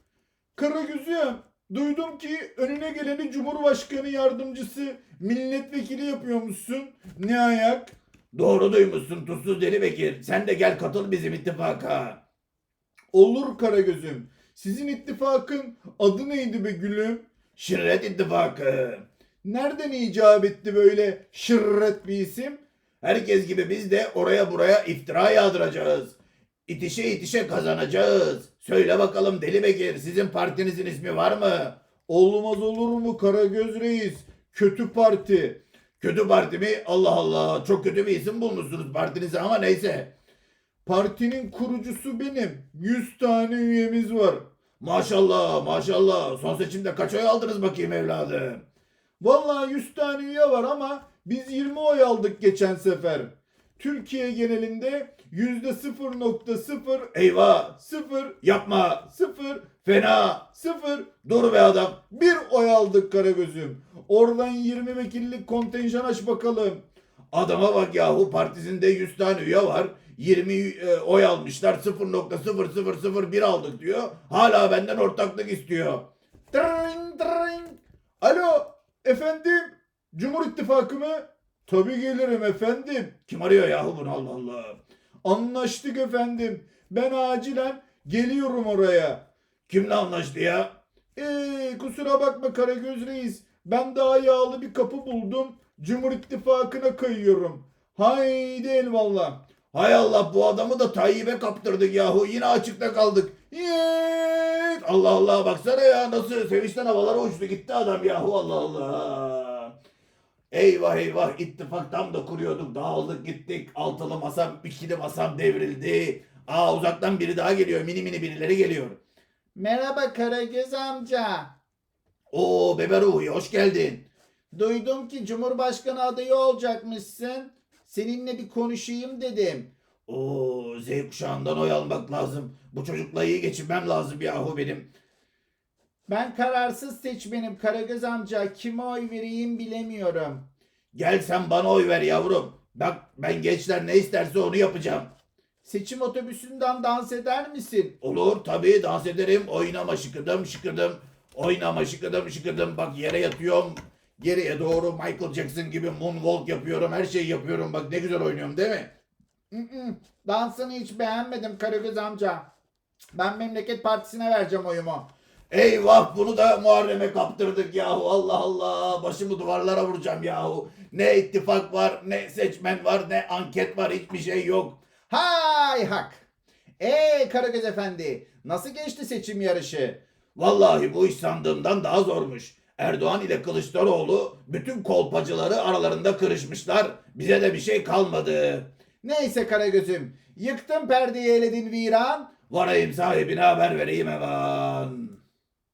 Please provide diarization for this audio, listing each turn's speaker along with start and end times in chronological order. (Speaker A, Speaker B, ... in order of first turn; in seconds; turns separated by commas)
Speaker A: 0.6-7.9, Speaker B: 8.3-12.2, Speaker A: 13.1-17.3, Speaker B: 17.6-19.0, Speaker A: 19.4-22.6, Speaker B: 23.0-26.1, Speaker B: 26.7-31.8, Speaker A: 32.1-35.6, Speaker B: 36.0-40.1, Speaker A: 40.8-44.4, Speaker B: 44.8-48.6, Speaker A: 49.2-57.1, Speaker B: 57.1-57.7, Speaker A: 57.7-58.4, Speaker B: 58.4-59.0, Speaker A: 59.0-59.9, Speaker B: 59.8-60.5, Speaker A: 60.5-61.2, Speaker B: 61.2-62.0, Speaker A: 62.1-66.8, Speaker B: 67.3-76.0, Speaker A: 76.5-83.2, Speaker B: 83.3-84.8, Speaker A: 85.2-89.2, Speaker B: 89.7-90.7, Speaker A: 91.2-99.4, Speaker B: 99.7-109.7, Speaker A: 104.0-104.5, Speaker B: 110.5-119.0, Speaker A: 119.5-121.5, Speaker B: 122.3-124.0, Speaker A: 124.5-129.7, Speaker B: 130.1-134.9, Speaker A: 136.1-140.4, Speaker B: 140.9-145.1, Speaker A: 145.6-148.0, Speaker B: 148.0-158.9, Speaker A: 159.5-162.4, Speaker A: 163.1-165.1, Speaker B: 165.5-174.8, Speaker A: 175.1-176.2, Speaker A: 176.8-180.0, Speaker B: 180.3-188.7, Speaker A: 189.0-192.3, Speaker B: 192.5-195.2